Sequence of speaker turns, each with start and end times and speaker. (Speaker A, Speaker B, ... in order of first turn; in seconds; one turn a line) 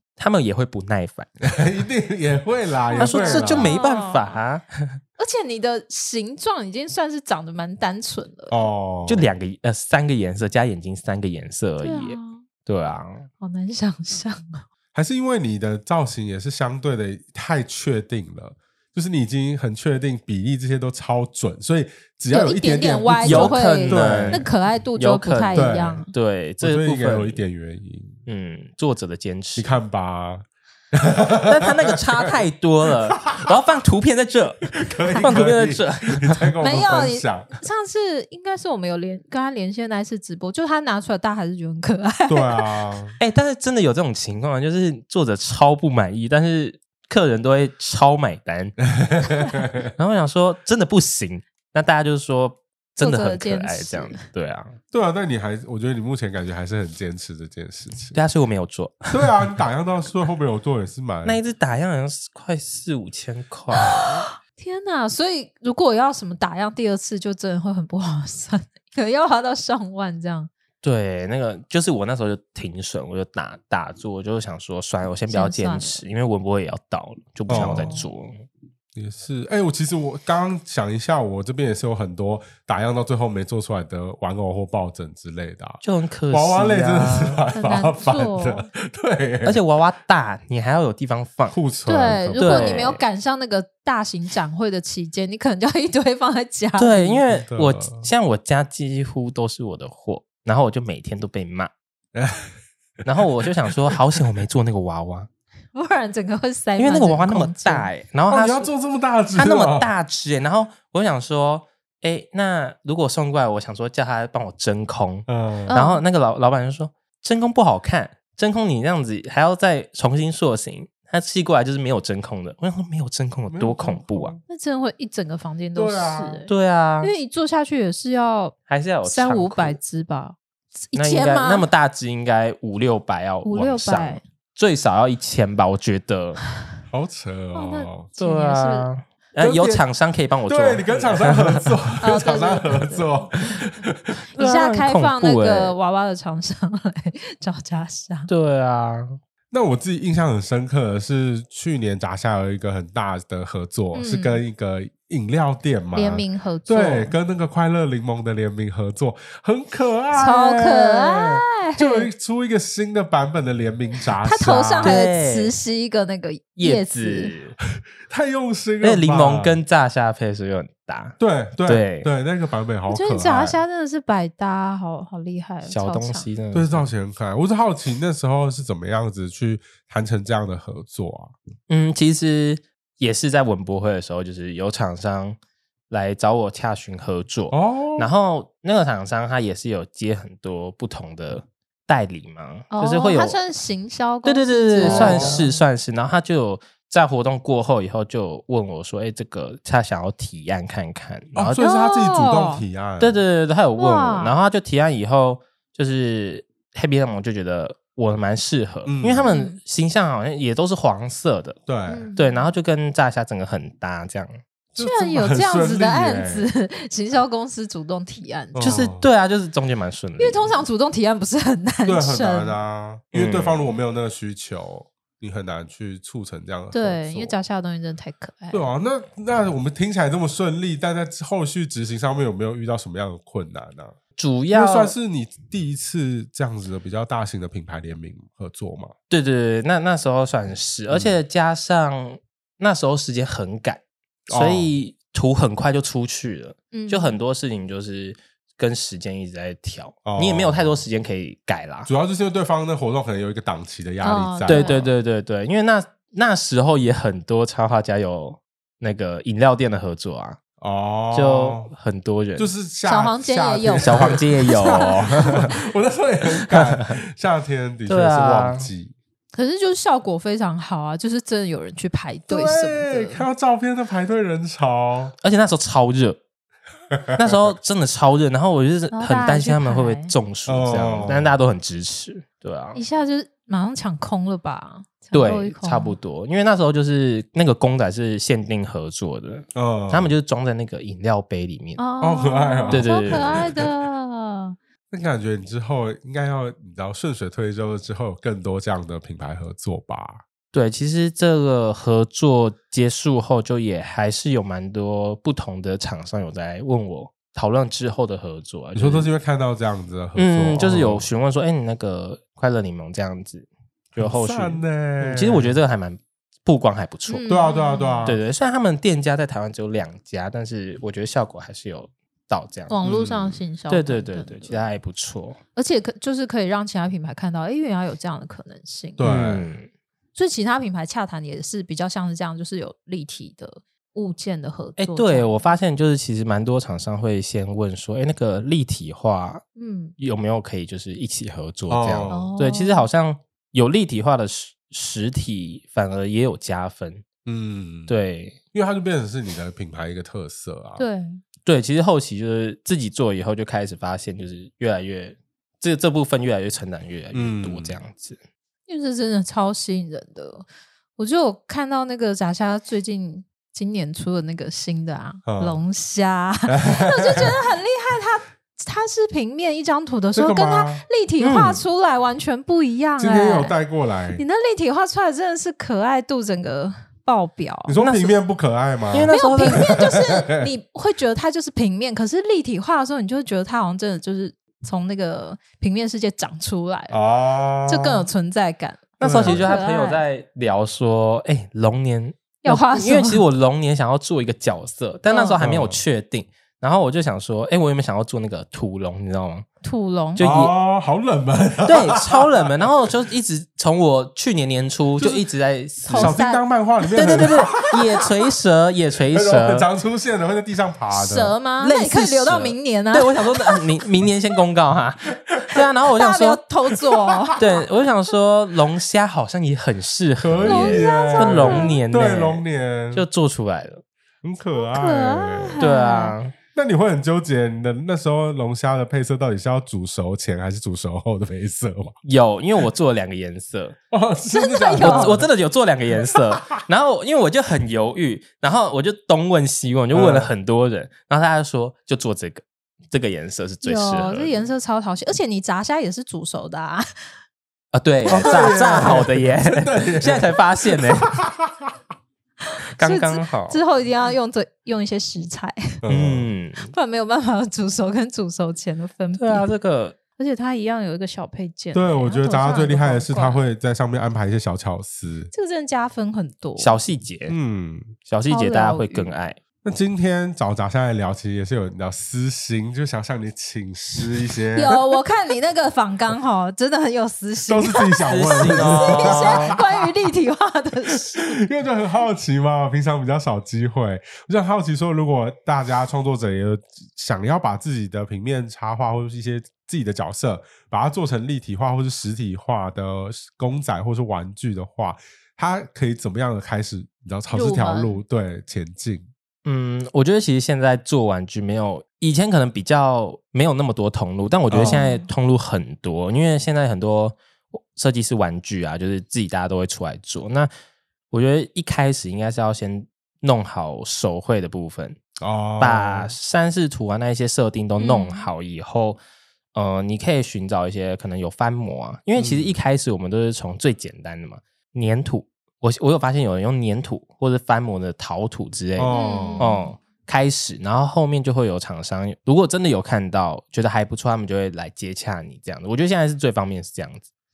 Speaker A: 0.2-1.3
Speaker B: 1.5-3.7
Speaker C: 2.9-4.4
Speaker A: 3.0-5.0
Speaker C: 5.2-8.7
Speaker B: 8.5-9.3
Speaker A: 9.1-13.3
Speaker C: 11.8-12.4
Speaker C: 13.4-14.6
Speaker B: 14.9-24.5
Speaker C: 22.3-26.1
Speaker A: 23.2-27.4
Speaker B: 25.5-26.1
Speaker B: 26.6-28.2
Speaker A: 28.3-29.7
Speaker B: 29.6-32.4
Speaker A: 31.5-36.5
Speaker B: 32.9-33.5
Speaker B: 34.7-37.5
Speaker C: 36.6-42.8
Speaker B: 42.3-43.2
Speaker A: 43.2-48.8
Speaker B: 49.0-49.9
Speaker A: 50.0-54.8
Speaker C: 53.0-54.2
Speaker B: 54.9-58.2
Speaker A: 58.1-59.1
Speaker B: 59.1-61.4
Speaker A: 61.2-64.2
Speaker C: 64.0-70.5
Speaker A: 70.8-78.3
Speaker C: 75.3-76.0
Speaker B: 77.5-78.0
Speaker C: 77.5-78.0
Speaker B: 79.0-89.6
Speaker A: 85.8-87.4
Speaker C: 87.5-88.7
Speaker A: 89.5-91.6
Speaker B: 91.5-92.9
Speaker C: 91.9-97.2
Speaker A: 92.3-93.0
Speaker A: 96.8-101.7
Speaker B: 97.3-98.1
Speaker B: 102.2-102.5
Speaker A: 103.0-105.3
Speaker B: 103.2-104.2
Speaker C: 105.7-107.9
Speaker A: 106.8-108.7
Speaker B: 108.3-109.9
Speaker A: 109.3-124.4
Speaker B: 115.3-115.7
Speaker C: 115.7-116.0
Speaker B: 123.5-124.4
Speaker C: 124.5-126.5
Speaker B: 125.8-126.4
Speaker A: 126.5-127.1
Speaker C: 127.0-131.7
Speaker A: 128.7-129.8
Speaker A: 130.9-136.4
Speaker C: 133.4-134.2
Speaker B: 136.9-138.1
Speaker C: 137.5-138.9
Speaker A: 138.2-141.7
Speaker B: 139.4-139.8
Speaker B: 140.5-144.1
Speaker C: 142.0-143.1
Speaker C: 144.3-148.3
Speaker A: 144.4-145.8
Speaker A: 148.3-149.2
Speaker B: 149.5-165.0
Speaker C: 153.9-154.4
Speaker C: 155.9-157.2
Speaker C: 160.2-162.1
Speaker C: 164.2-167.3
Speaker A: 164.8-165.5
Speaker A: 166.6-167.6
Speaker B: 168.1-169.6
Speaker A: 168.8-172.1
Speaker B: 171.2-173.6
Speaker C: 172.9-176.3
Speaker A: 175.6-176.8
Speaker B: 176.5-181.3
Speaker A: 181.7-185.4
Speaker A: 185.9-193.4
Speaker B: 187.5-188.1
Speaker C: 192.7-195.6
Speaker A: 194.2-201.6
Speaker B: 194.8-195.4
Speaker B: 201.3-203.2
Speaker C: 201.6-202.6
Speaker A: 203.0-211.6
Speaker C: 203.8-204.4
Speaker B: 208.8-209.3
Speaker C: 209.2-209.6
Speaker B: 211.7-212.1
Speaker C: 211.9-212.5
Speaker A: 212.2-214.4
Speaker B: 214.8-216.5
Speaker C: 214.8-218.9
Speaker B: 218.5-219.1
Speaker A: 218.6-220.6
Speaker C: 220.2-222.6
Speaker B: 221.9-227.4
Speaker A: 223.1-223.6
Speaker C: 226.7-228.7
Speaker B: 228.5-234.0
Speaker A: 234.2-234.9
Speaker B: 234.5-238.9
Speaker A: 239.1-251.9
Speaker B: 240.9-241.2
Speaker B: 244.3-244.7
Speaker C: 246.7-247.2
Speaker B: 250.1-250.8
Speaker B: 251.9-254.9
Speaker C: 254.0-254.9
Speaker A: 254.5-260.4
Speaker B: 260.6-261.7
Speaker A: 261.1-262.5
Speaker B: 262.4-268.9
Speaker C: 262.9-265.4
Speaker A: 263.8-265.5
Speaker A: 266.5-266.9
Speaker A: 267.9-268.7
Speaker C: 269.3-273.2
Speaker B: 272.3-275.1
Speaker A: 275.2-276.2
Speaker B: 277.1-277.5
Speaker A: 277.2-282.8
Speaker C: 278.9-280.1
Speaker B: 280.5-281.4
Speaker C: 282.8-286.0
Speaker A: 285.1-291.8
Speaker B: 289.6-290.1
Speaker C: 291.8-294.6
Speaker B: 292.0-293.7
Speaker A: 292.7-293.4
Speaker B: 294.9-300.2
Speaker A: 300.5-309.1
Speaker B: 308.8-311.1
Speaker A: 310.2-317.3
Speaker B: 314.0-315.6
Speaker C: 317.1-318.1
Speaker B: 317.3-318.2
Speaker A: 318.1-322.8
Speaker C: 322.7-324.6
Speaker B: 322.8-323.4
Speaker A: 323.7-325.4
Speaker C: 325.6-329.1
Speaker B: 329.0-329.5
Speaker A: 329.0-329.7
Speaker C: 330.1-335.3
Speaker A: 334.8-339.4
Speaker C: 339.6-339.9
Speaker A: 340.0-347.1
Speaker B: 341.7-342.3
Speaker C: 342.1-342.9
Speaker B: 347.2-347.9
Speaker A: 347.9-348.4
Speaker B: 348.5-350.8
Speaker C: 350.8-351.2
Speaker A: 351.5-358.2
Speaker B: 357.1-357.8
Speaker C: 358.7-360.4
Speaker C: 361.0-373.6
Speaker B: 365.3-365.6
Speaker B: 366.5-367.3
Speaker B: 370.1-370.9
Speaker A: 371.2-371.6
Speaker B: 373.0-374.2
Speaker C: 374.1-378.1
Speaker B: 377.7-380.5
Speaker A: 378.9-379.7
Speaker C: 379.1-387.0
Speaker B: 386.9-388.1
Speaker C: 387.7-390.0
Speaker B: 389.0-389.6
Speaker A: 389.0-399.5
Speaker C: 392.4-393.2
Speaker C: 395.1-395.4
Speaker B: 395.4-395.8
Speaker C: 399.6-400.3
Speaker A: 400.2-400.5
Speaker B: 400.2-402.5
Speaker A: 401.7-406.2
Speaker C: 405.9-406.4
Speaker B: 405.9-408.1
Speaker A: 406.9-409.7
Speaker B: 409.1-411.3
Speaker C: 410.9-413.7
Speaker A: 411.6-416.4
Speaker C: 415.9-417.6
Speaker A: 417.4-423.8
Speaker B: 420.2-423.1
Speaker C: 420.4-421.8
Speaker B: 424.2-425.6
Speaker C: 424.6-426.1
Speaker A: 425.6-426.4
Speaker B: 426.5-432.0
Speaker A: 432.1-433.8
Speaker B: 433.9-435.3
Speaker C: 434.3-435.1
Speaker A: 434.8-444.3
Speaker B: 439.9-440.3
Speaker C: 443.6-446.9
Speaker A: 447.7-451.1
Speaker B: 448.1-451.8
Speaker C: 448.1-448.6
Speaker A: 452.8-453.6
Speaker C: 452.8-455.6
Speaker B: 455.8-456.3
Speaker A: 455.9-456.7
Speaker C: 456.6-459.5
Speaker A: 459.2-460.0
Speaker C: 460.2-463.4
Speaker B: 461.7-465.3
Speaker C: 465.3-466.8
Speaker A: 466.6-467.4
Speaker B: 467.3-468.0
Speaker A: 468.1-469.4
Speaker C: 468.3-469.1
Speaker B: 469.6-474.8
Speaker C: 474.6-481.4
Speaker B: 477.5-479.6
Speaker A: 478.1-479.6
Speaker B: 481.2-499.1
Speaker C: 497.3-498.0
Speaker A: 499.4-510.5
Speaker B: 504.5-504.8
Speaker C: 504.6-505.1
Speaker A: 511.1-515.0
Speaker B: 515.2-516.1
Speaker A: 515.6-519.0
Speaker C: 517.8-518.3
Speaker A: 519.5-537.1
Speaker B: 522.2-522.6
Speaker B: 528.8-529.6
Speaker C: 528.9-529.7